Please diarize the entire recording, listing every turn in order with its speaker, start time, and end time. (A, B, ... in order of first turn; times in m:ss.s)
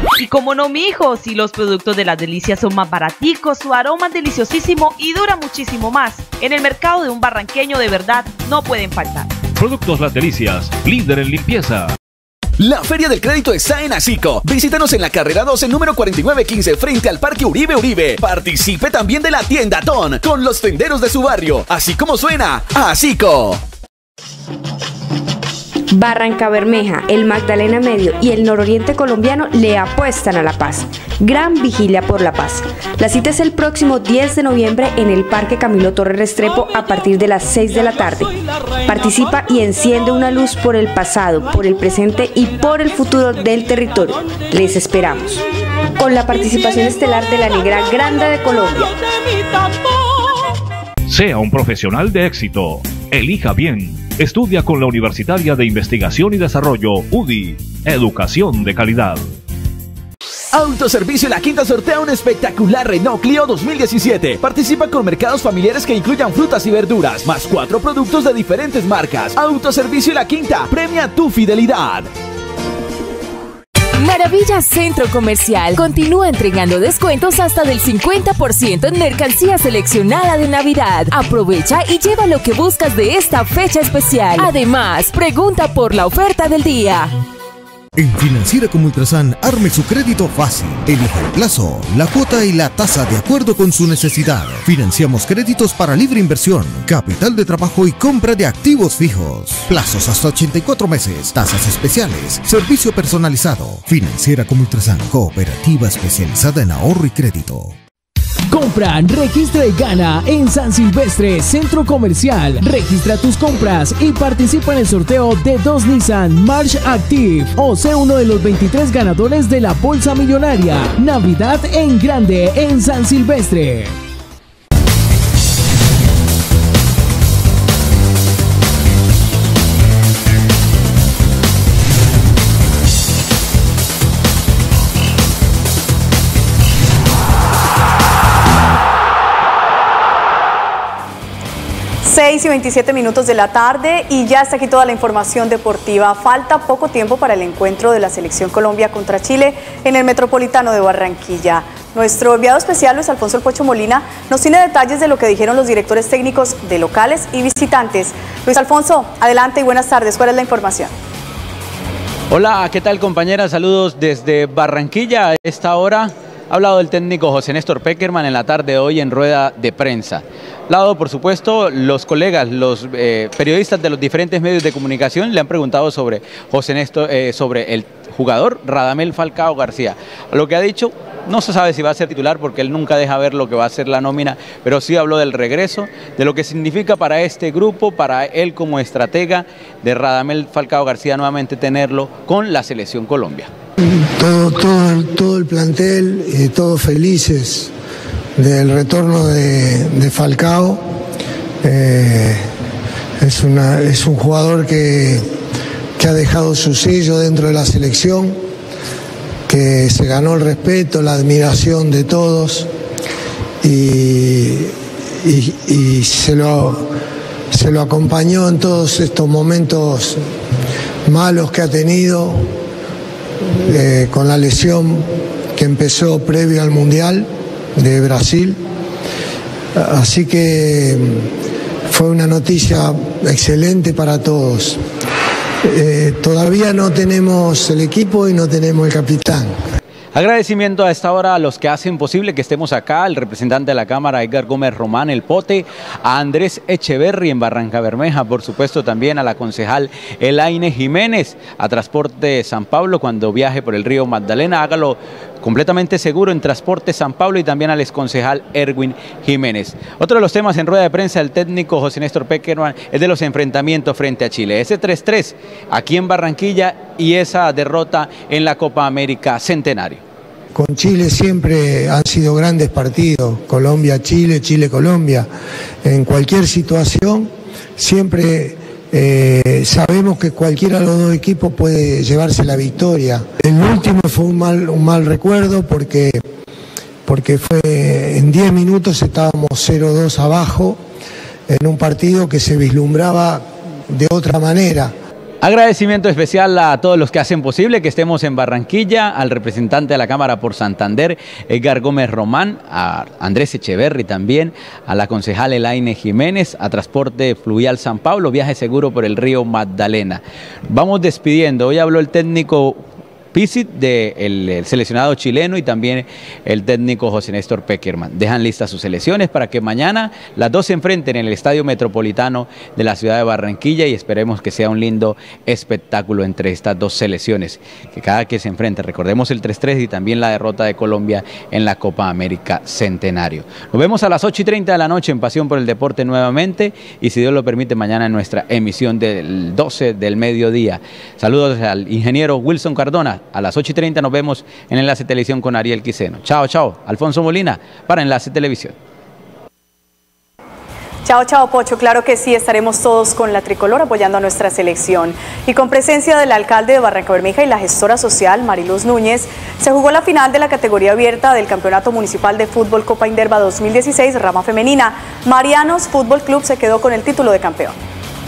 0:00.2-0:09.3 A
0:09.6-0:11.9 B
0:12.6-0:23.6 C
0:25.9-0:38.3 D
0:38.8-0:45.4 D
0:46.0-0:48.9 D
0:51.1-0:59.3 B
1:00.5-1:12.1 C
1:14.0-1:27.1 E
1:28.0-1:47.7 F
1:48.5-2:03.9 G
2:22.0-2:40.9 H
2:42.3-3:13.5 I
3:13.9-3:17.7 J
3:18.4-3:20.8 J
3:21.6-3:22.4 J
3:23.2-3:25.3 J
3:26.0-3:28.4 J
3:29.5-3:32.7 J
3:33.6-3:36.8 J
3:37.5-3:40.2 J
3:41.1-3:42.5 J
3:43.4-3:48.6 J
3:49.8-3:51.3 J
3:51.9-3:54.8 J
3:55.6-3:59.6 J
4:00.1-4:30.0 I
4:30.5-4:35.3 J
4:35.8-4:46.2 J
4:47.0-4:50.8 J
4:51.5-4:54.9 J
4:55.4-5:12.8 I
5:13.3-5:48.7 I
5:51.0-6:07.8 H